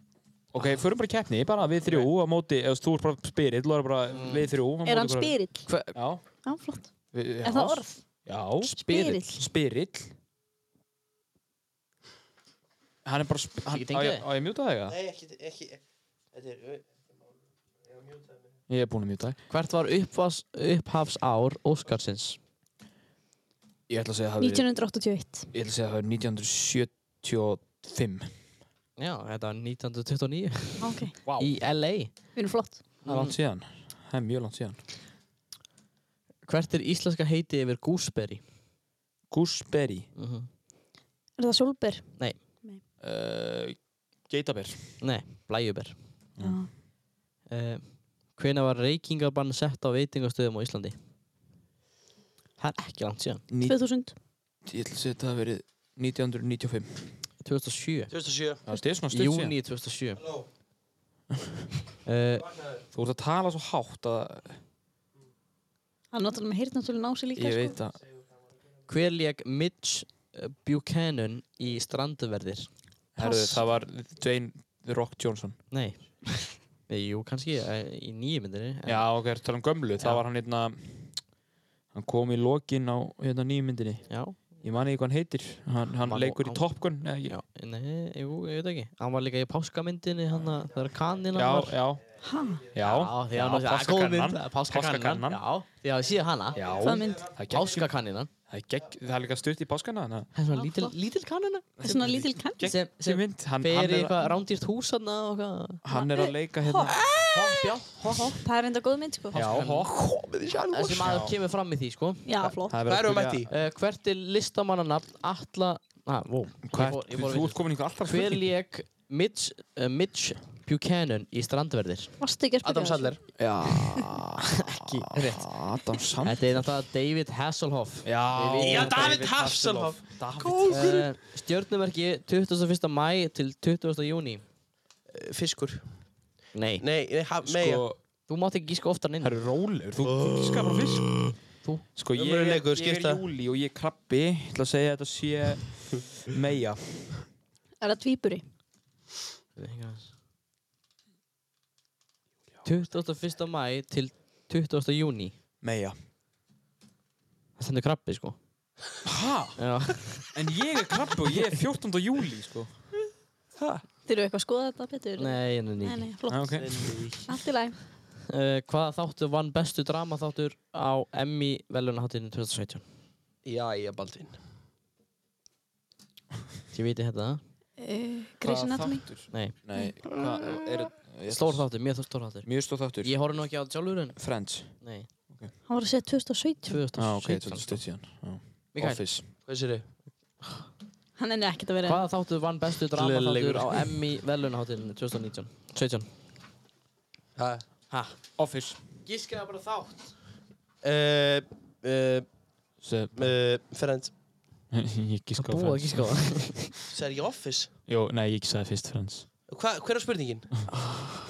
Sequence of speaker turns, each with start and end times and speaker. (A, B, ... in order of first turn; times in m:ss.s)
0:00.5-0:05.4 A
0:01.8-0:02.1 B
0:04.1-0:04.5 B
0:04.8-0:05.7 C
0:05.7-0:05.9 B
0:05.9-0:06.2 A
0:06.4-0:06.9 C
0:07.1-0:08.8 A
0:07.4-0:08.0 C
0:08.7-0:09.4 B
0:08.7-0:09.4 C
0:09.3-0:10.1 A
0:13.0-0:15.0 A
0:13.7-0:14.2 B
0:14.9-0:15.8 D
0:16.3-0:17.1 D
0:17.8-0:18.5 D
0:18.7-0:19.4 A
0:19.5-0:22.4 B
0:23.9-0:24.8 A
0:24.4-0:25.5 C
0:25.5-0:28.3 A
0:29.0-0:32.2 B
0:30.8-0:31.2 C
0:31.2-0:31.6 A
0:32.3-0:32.8 C
0:33.0-0:34.8 A
0:33.0-0:33.4 B
0:36.4-0:38.4 B
0:39.3-0:40.1 A
0:40.2-0:40.5 B
0:41.4-0:42.8 C
0:42.2-0:42.4 B
0:43.0-0:45.0 A
0:45.0-0:46.0 B
0:46.4-0:46.6 A
0:46.4-0:46.7 C
0:47.5-0:50.9 B
0:52.6-0:53.4 B
0:53.5-0:53.8 A
0:53.6-0:54.2 C
0:54.6-0:57.1 A
0:57.4-0:58.1 B
0:58.1-0:58.6 D
0:58.6-0:59.6 A
0:59.1-1:00.3 B
1:02.0-1:02.5 B
1:02.6-1:02.8 D
1:02.9-1:04.6 A
1:06.1-1:07.8 C
1:07.4-1:08.0 A
1:08.9-1:12.7 B
1:13.1-1:15.6 A
1:13.2-1:13.6 C
1:15.7-1:19.1 B
1:18.8-1:21.2 A
1:20.0-1:20.2 B
1:21.9-1:24.0 A
1:24.1-1:24.5 B
1:24.6-1:27.4 A
1:26.0-1:26.7 B
1:27.2-1:31.8 B
1:31.3-1:32.1 A
1:32.2-1:32.7 C
1:32.7-1:35.4 A
1:32.8-1:36.7 B
1:36.5-1:37.9 A
1:36.8-1:37.3 C
1:37.5-1:38.3 B
1:38.5-1:40.3 A
1:40.3-1:41.9 B
1:40.5-1:40.9 C
1:41.8-1:44.2 A
1:41.8-1:42.7 C
1:42.6-1:45.8 B
1:45.8-1:47.0 A
1:45.9-1:47.2 C
1:47.3-1:48.4 B
1:48.3-1:49.6 C
1:49.3-1:51.3 A
1:49.4-1:49.8 B
1:50.7-1:52.6 B
1:52.2-1:52.8 C
1:52.7-1:53.5 A
1:52.9-1:53.5 D
1:53.5-2:02.1 B
1:56.6-1:58.5 A
2:02.2-2:03.2 C
2:02.6-2:03.2 D
2:03.3-2:06.6 A
2:04.6-2:05.5 B
2:06.2-2:09.1 B
2:08.0-2:11.0 A
2:08.6-2:11.1 D
2:10.7-2:14.4 B
2:15.1-2:15.8 D
2:16.5-2:16.8 B
2:16.8-2:17.8 D
2:17.4-2:18.0 A
2:18.3-2:19.3 B
2:19.2-2:21.1 A
2:20.0-2:21.2 D
2:22.0-2:27.2 A
2:22.1-2:23.2 D
2:27.8-2:28.4 C
2:29.6-2:30.1 B
2:32.6-2:35.3 B
2:35.6-2:36.0 A
2:37.6-2:38.4 B
2:39.0-2:39.6 A
2:39.6-2:40.2 B
2:40.3-2:42.8 A
2:43.6-2:43.8 D
2:44.0-2:46.7 C
2:45.2-2:46.1 B
2:46.3-2:47.1 A
2:46.6-2:47.3 D
2:47.2-2:47.8 C
2:48.3-2:52.8 B
2:53.4-2:54.4 D
2:56.7-2:57.4 B
2:57.8-2:59.1 C
2:58.4-3:01.7 A
2:59.7-3:00.0 C
3:01.3-3:04.2 B
3:02.4-3:03.4 A
3:04.2-3:05.5 A
3:04.7-3:05.1 B
3:05.7-3:06.8 C
3:06.7-3:07.8 B
3:06.9-3:09.3 A
3:08.7-3:09.0 B
3:09.5-3:09.8 D
3:11.2-3:12.0 C
3:11.8-3:16.1 B
3:13.0-3:13.8 D
3:17.4-3:17.6 D
3:17.9-3:18.1 B
3:18.4-3:18.8 A
3:19.0-3:20.1 B
3:20.8-3:22.2 D
3:22.8-3:23.3 A
3:23.2-3:24.1 D
3:24.7-3:26.6 A
3:25.4-3:26.7 B
3:26.9-3:27.7 D
3:27.9-3:29.3 A
3:29.5-3:30.5 D
3:30.7-3:31.0 B